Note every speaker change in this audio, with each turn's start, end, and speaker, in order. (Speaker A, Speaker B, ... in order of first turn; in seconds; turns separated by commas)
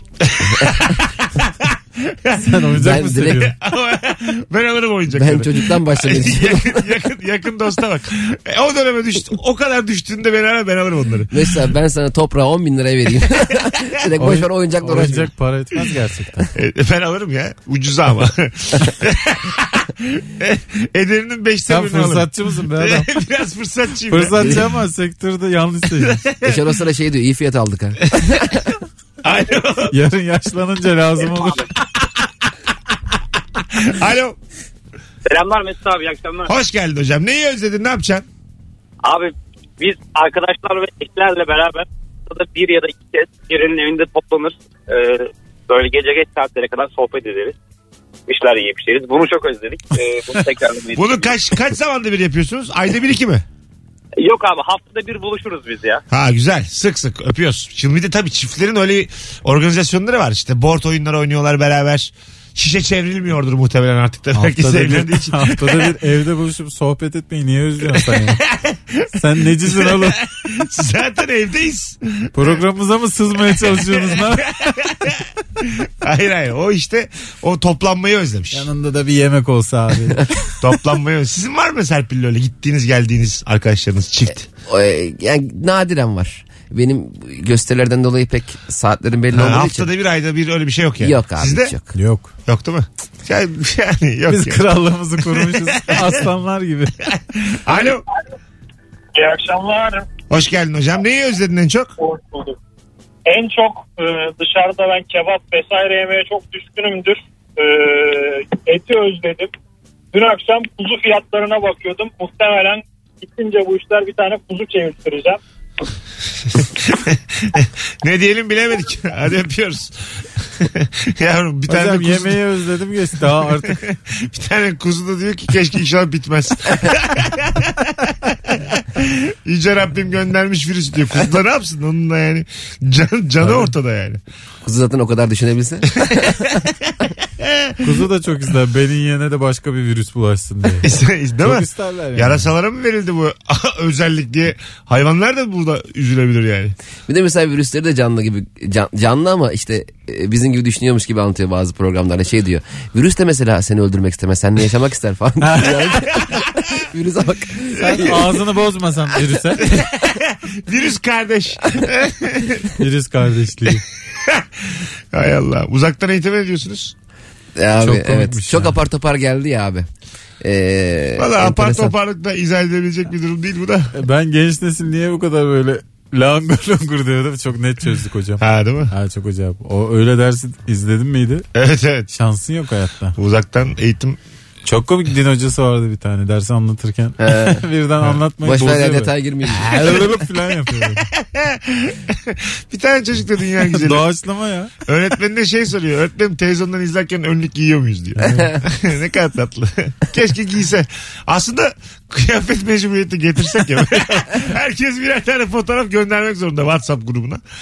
Speaker A: 0.2-2.6, Speaker B: 2.4-3.5, Speaker C: 2.8-3.4, Speaker A: 3.3-11.4, Speaker C: 5.1-6.9, Speaker C: 11.3-15.3, Speaker B: 14.2-16.5, Speaker A: 16.5-24.6, Speaker B: 21.7-23.1, Speaker B: 24.1-26.2, Speaker A: 26.0-26.6, Speaker C: 26.4-28.6, Speaker A: 29.2-29.9, Speaker B: 29.9-31.6, Speaker A: 31.8-32.3, Speaker A: 33.6-34.4, Speaker D: 35.2-36.5, Speaker A: 36.5-38.2, Speaker D: 39.0-47.5, Speaker D: 48.3-51.4, Speaker A: 51.0-53.4, Speaker D: 54.2-56.0, Speaker A: 56.1-65.9, Speaker B: 64.3-68.4, Speaker A: 67.9-69.1, Speaker B: 69.1-70.2, Speaker A: 69.6-72.6, Speaker B: 72.3-74.5, Speaker A: 73.6-78.7, Speaker B: 78.5-80.3, Speaker A: 80.6-84.5, Speaker C: 84.6-89.9, Speaker A: 89.3-91.7, Speaker C: 91.0-91.9, Speaker B: 91.9-92.3, Speaker A: 92.5-94.6, Speaker B: 94.3-96.9, Speaker A: 95.3-96.1, Speaker A: 97.2-98.0, Speaker E: 99.1-100.1, Speaker A: 100.3-101.9, Speaker E: 102.0-102.5, Speaker E: 103.2-109.5, Speaker E: 110.1-115.4, Speaker A: 116.5-120.0, Speaker A: 120.6-122.4, Speaker B: 121.7-123.8, Speaker A: 123.7-134.2, Speaker B: 133.4-133.7, Speaker C: 134.6-136.5, Speaker A: 136.1-136.6, Speaker A: 137.4-137.8, Speaker B: 137.8-140.9, Speaker A: 140.8-146.7, Speaker B: 141.4-142.5, Speaker C: 147.1-158.2, Speaker B: 155.4-156.1, Speaker B: 157.8-159.7, Speaker A: 159.6-162.7, Speaker B: 162.8-163.8, Speaker A: 164.2-166.9, Speaker C: 167.6-169.9, Speaker B: 167.8-168.8, Speaker C: 170.4-171.9, Speaker A: 171.2-173.9, Speaker B: 173.9-181.4, Speaker A: 178.4-178.9, Speaker A: 181.5-182.1, Speaker B: 182.1-183.2, Speaker A: 183.2-184.2, Speaker B: 184.6-191.1, Speaker C: 187.2-187.6, Speaker C: 188.4-189.9, Speaker A: 191.2-194.0, Speaker B: 193.7-194.7, Speaker A: 194.9-207.4, Speaker B: 198.2-198.5